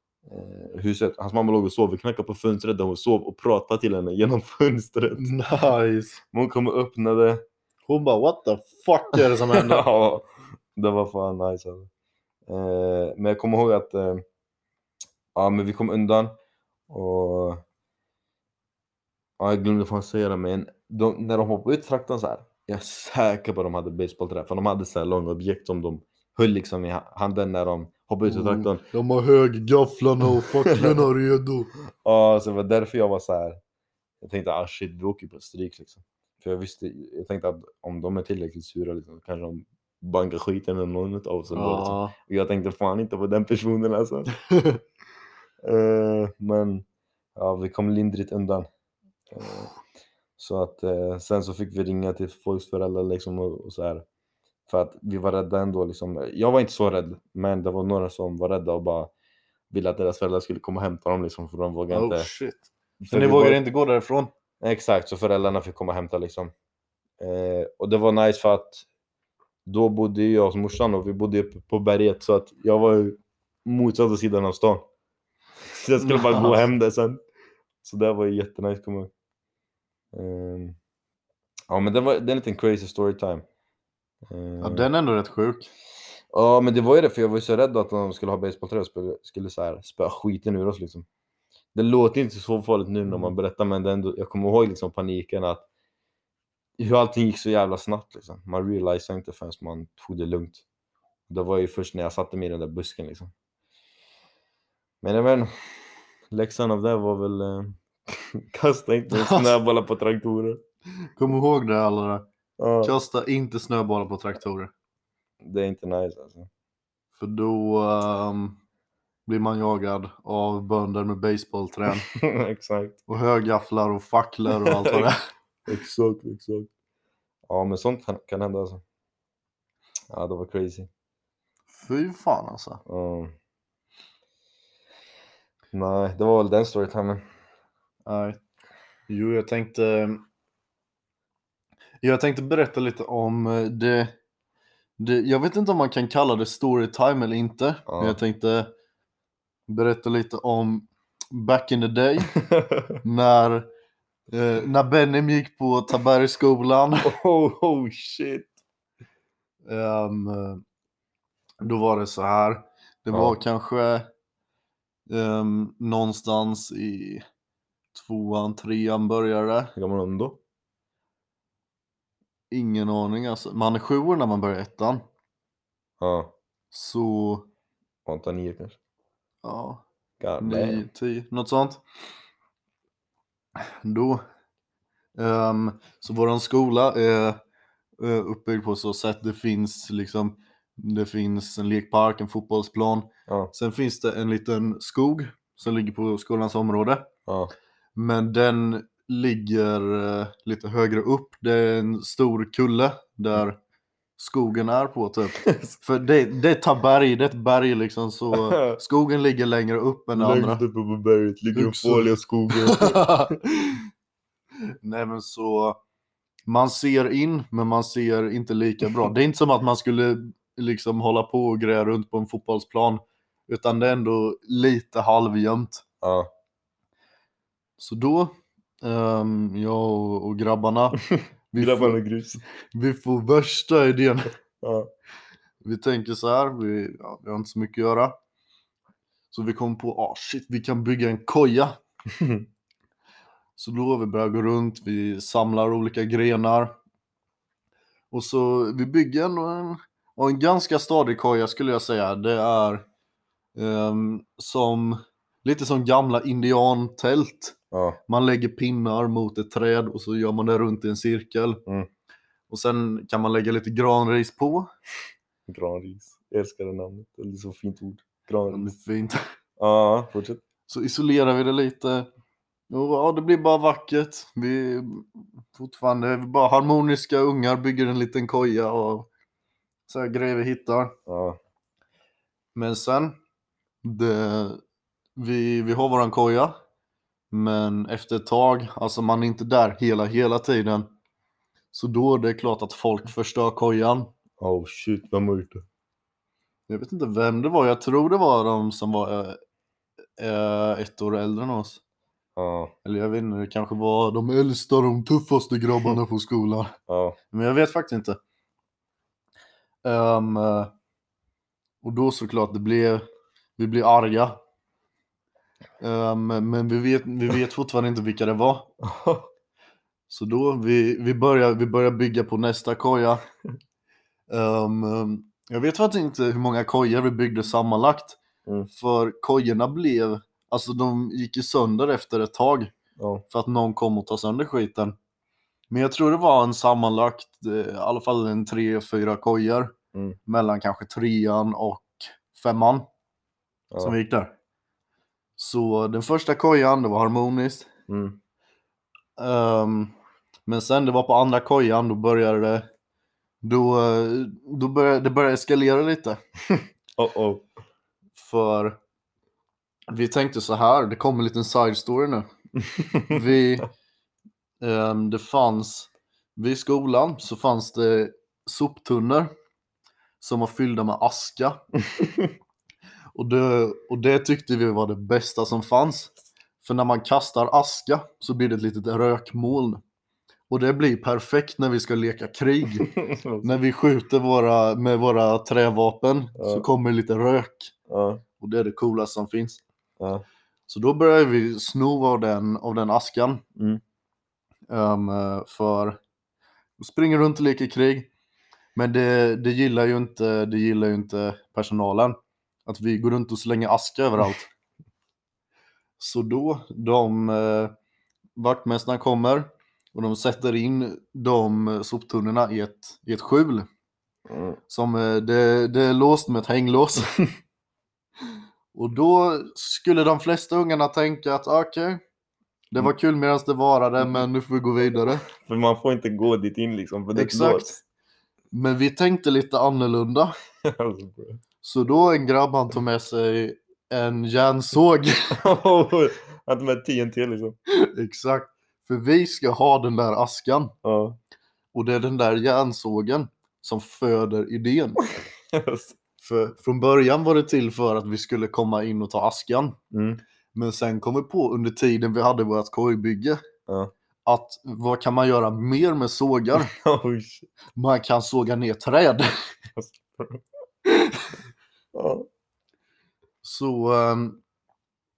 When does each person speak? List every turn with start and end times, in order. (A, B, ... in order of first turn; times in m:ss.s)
0:00.3-0:05.3 A
0:05.2-0:06.2 B
0:06.3-0:07.4 A
0:07.9-0:09.8 B
0:09.3-0:11.9 A
0:12.5-0:14.2 A
0:15.4-0:16.3 A
0:16.9-0:17.6 A
0:19.4-0:28.8 A
0:28.3-0:31.7 B
0:30.7-0:31.1 A
0:31.9-0:33.6 A
0:34.2-0:44.3 A
0:41.5-0:42.2 B
0:44.5-0:44.8 B
0:45.6-0:46.8 A
0:47.4-0:48.7 A
0:49.3-0:49.7 A
0:50.4-0:54.0 A
0:54.7-0:59.1 A
0:59.7-1:02.3 A
1:01.9-1:04.3 B
1:03.0-1:03.6 A
1:04.6-1:06.5 A
1:07.2-1:08.8 A
1:09.7-1:14.8 A
1:15.6-1:17.2 A
1:16.0-1:16.6 B
1:17.8-1:19.1 A
1:20.1-1:20.8 A
1:21.7-1:23.4 A
1:24.3-1:24.9 A
1:24.6-1:25.7 B
1:26.3-1:31.1 A
1:31.7-1:35.7 A
1:33.1-1:33.3 B
1:36.8-1:40.6 A
1:41.3-1:43.3 A
1:45.0-1:50.6 A
1:49.1-1:49.5 B
1:51.2-1:52.3 B
1:52.6-1:52.9 A
1:52.8-1:54.7 B
1:55.4-1:56.5 A
1:57.2-1:58.6 B
1:59.3-2:02.1 B
2:02.0-2:03.0 A
2:03.1-2:05.2 B
2:04.5-2:05.1 A
2:05.7-2:06.7 A
2:07.5-2:08.8 A
2:10.1-2:10.9 A
2:11.7-2:12.8 B
2:12.9-2:13.3 A
2:15.7-2:17.2 A
2:18.1-2:18.4 B
2:19.1-2:20.2 B
2:22.0-2:24.1 B
2:25.0-2:28.7 B
2:27.9-2:28.2 A
2:29.7-2:32.3 B
2:32.3-2:33.0 A
2:33.0-2:33.7 B
2:34.3-2:37.1 B
2:37.0-2:38.5 A
2:39.7-2:40.6 B
2:41.6-2:44.1 B
2:45.1-2:47.2 B
2:47.9-2:49.7 B
2:49.8-2:50.4 A
2:52.5-2:55.0 B
2:56.0-2:56.3 A
2:56.7-2:57.5 B
2:58.1-2:58.8 A
2:59.4-2:59.8 B
3:00.2-3:00.9 A
3:00.4-3:01.8 B
3:03.6-3:04.2 B
3:05.2-3:07.4 B
3:08.0-3:17.1 B
3:17.3-3:17.5 A
3:18.0-3:23.6 B
3:24.2-3:30.6 B
3:25.3-3:25.8 A
3:28.3-3:28.8 A
3:30.1-3:33.3 A
3:31.5-3:33.9 B
3:34.8-3:35.8 B
3:36.5-3:45.8 B
3:46.0-3:46.3 A
3:47.8-3:51.0 B
3:51.5-3:52.0 B
3:51.6-3:52.4 A
3:52.6-3:54.3 B
3:54.6-3:54.9 A
3:55.6-3:58.2 B
3:59.3-4:01.8 B
4:02.1-4:02.4 A
4:03.6-4:06.7 B
4:08.1-4:12.8 B
4:13.6-4:17.6 B
4:17.7-4:18.0 A
4:18.1-4:21.6 B
4:22.5-4:24.7 B
4:25.5-4:28.6 A
4:28.5-4:29.2 B
4:29.6-4:30.4 A
4:30.7-4:32.1 B
4:32.7-4:39.1 B
4:39.9-4:41.0 B
4:41.1-4:41.4 A
4:42.6-4:43.2 B
4:43.8-4:44.6 B
4:45.2-4:46.5 B
4:47.3-4:50.9 B
4:51.7-4:54.1 B
4:54.4-4:55.6 A
4:56.7-4:59.4 B
5:00.2-5:01.8 B
5:02.4-5:02.7 A
5:02.8-5:06.7 B
5:06.9-5:07.2 A
5:07.3-5:08.2 B
5:09.8-5:10.7 B
5:11.8-5:13.0 B
5:13.6-5:14.4 B
5:15.8-5:18.7 B
5:18.8-5:19.3 A
5:20.1-5:23.2 B
5:24.3-5:28.2 B
5:28.7-5:32.7 B
5:33.0-5:33.2 A
5:33.3-5:35.0 B
5:35.7-5:39.7 B
5:40.3-5:42.8 B
5:43.7-5:44.0 A
5:43.8-5:44.3 B
5:45.4-5:47.7 B
5:47.9-5:48.2 A
5:49.2-5:49.9 B
5:50.5-5:52.7 B
5:53.4-5:56.2 B
5:56.5-5:57.4 A
5:58.2-5:58.8 B
5:59.9-6:02.3 B
6:02.6-6:03.2 A
6:03.1-6:03.7 B
6:04.6-6:09.3 B
6:10.2-6:11.6 B
6:11.9-6:12.3 A
6:13.2-6:19.8 B
6:20.5-6:22.9 B
6:22.8-6:23.6 A
6:23.4-6:27.7 B
6:26.4-6:26.6 A
6:27.9-6:28.2 A
6:28.4-6:29.6 B
6:30.0-6:30.2 A
6:30.7-6:33.4 B
6:34.7-6:36.0 B
6:36.8-6:38.1 B
6:38.8-6:44.5 B
6:46.0-6:47.7 B
6:48.4-6:53.7 B
6:54.3-6:54.6 A
6:54.7-6:57.1 B
6:58.7-7:02.0 B
7:02.7-7:05.2 B
7:05.2-7:07.7 A
7:07.2-7:07.8 B
7:08.5-7:10.4 B
7:10.6-7:11.4 A
7:11.6-7:15.4 B
7:15.3-7:17.6 A
7:17.7-7:20.7 B
7:20.8-7:21.2 A
7:21.7-7:25.0 B
7:25.0-7:26.0 A
7:26.2-7:29.8 B
7:29.9-7:30.2 A
7:30.6-7:33.4 B
7:34.3-7:36.7 B
7:36.6-7:37.5 A
7:37.8-7:39.3 B
7:39.7-7:40.4 A
7:40.9-7:41.3 B
7:41.9-7:42.3 A
7:43.4-7:44.4 B